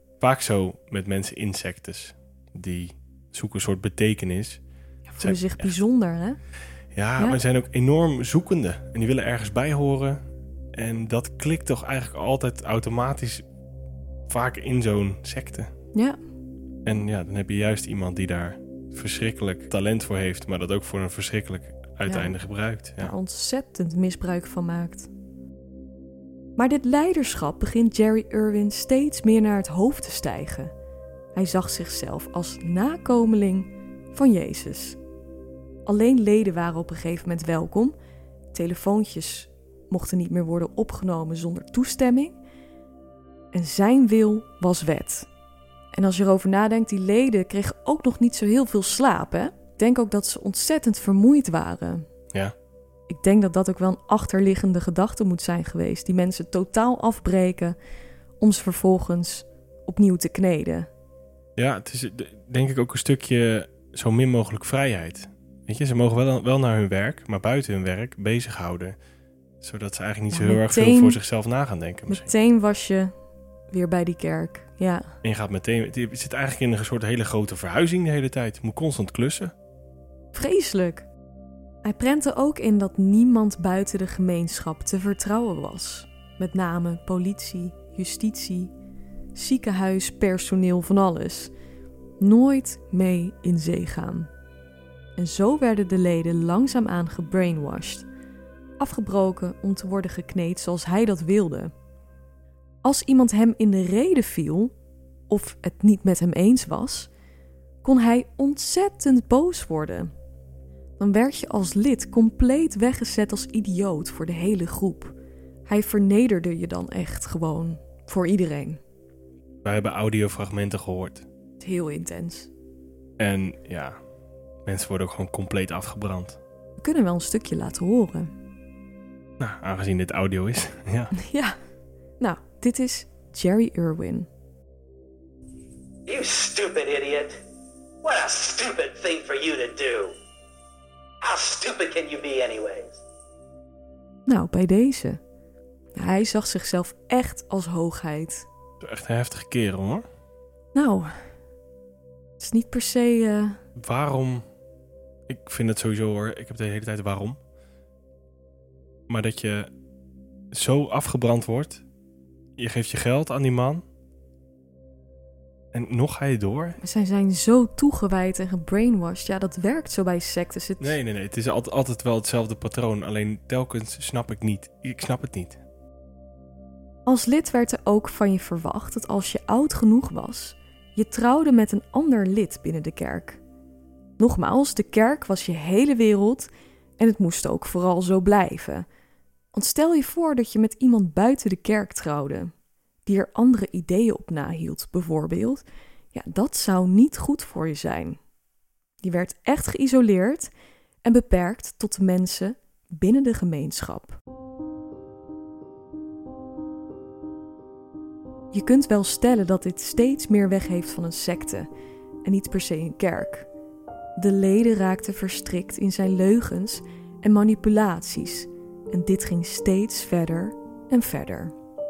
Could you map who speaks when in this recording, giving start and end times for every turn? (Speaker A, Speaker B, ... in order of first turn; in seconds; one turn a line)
Speaker A: 0.2-4.6
Speaker B: 5.1-6.4
Speaker A: 5.2-5.7
Speaker A: 6.9-10.2
Speaker A: 10.7-13.4
Speaker A: 14.3-15.7
Speaker A: 16.9-23.1
Speaker B: 22.1-22.3
Speaker B: 23.0-25.1
Speaker B: 26.6-30.7
Speaker B: 31.4-35.0
Speaker B: 35.9-38.0
Speaker B: 38.5-42.4
Speaker B: 43.5-45.3
Speaker B: 45.9-52.1
Speaker B: 53.1-57.8
Speaker B: 58.4-60.9
Speaker A: 61.6-69.0
Speaker A: 69.6-72.3
Speaker B: 70.3-71.2
Speaker B: 72.1-73.1
Speaker B: 73.7-75.1
Speaker A: 75.2-79.5
Speaker B: 80.3-81.1
Speaker B: 81.8-88.7
Speaker B: 89.3-91.5
Speaker B: 92.2-94.3
Speaker B: 95.2-98.1
Speaker B: 98.8-101.7
Speaker B: 102.8-104.7
Speaker B: 105.3-107.1
Speaker B: 107.8-110.1
Speaker B: 111.0-115.2
Speaker B: 115.7-118.8
Speaker A: 119.6-121.2
Speaker B: 121.6-122.5
Speaker A: 123.2-124.0
Speaker A: 124.7-126.4
Speaker B: 126.8-128.3
Speaker A: 129.4-131.1
Speaker B: 131.2-131.6
Speaker B: 132.2-134.3
Speaker C: 136.1-137.4
Speaker C: 138.0-140.1
Speaker C: 141.2-143.0
Speaker B: 144.3-145.2
Speaker B: 145.9-148.5
Speaker A: 148.8-150.1
Speaker B: 150.7-151.3
Speaker B: 152.4-153.6
Speaker A: 153.8-154.5
Speaker A: 155.3-157.4
Speaker A: 159.1-159.7
Speaker A: 160.5-161.8
Speaker A: 162.6-163.8
Speaker A: 165.7-166.8
Speaker B: 166.8-171.0
Speaker A: 170.8-175.6
Speaker B: 177.1-183.4
Speaker B: 184.2-188.9
Speaker B: 189.5-192.5
Speaker B: 193.1-198.2
Speaker B: 199.0-200.5
Speaker B: 201.0-204.2
Speaker B: 208.5-211.7
Speaker B: 212.2-213.5
Speaker B: 214.2-221.5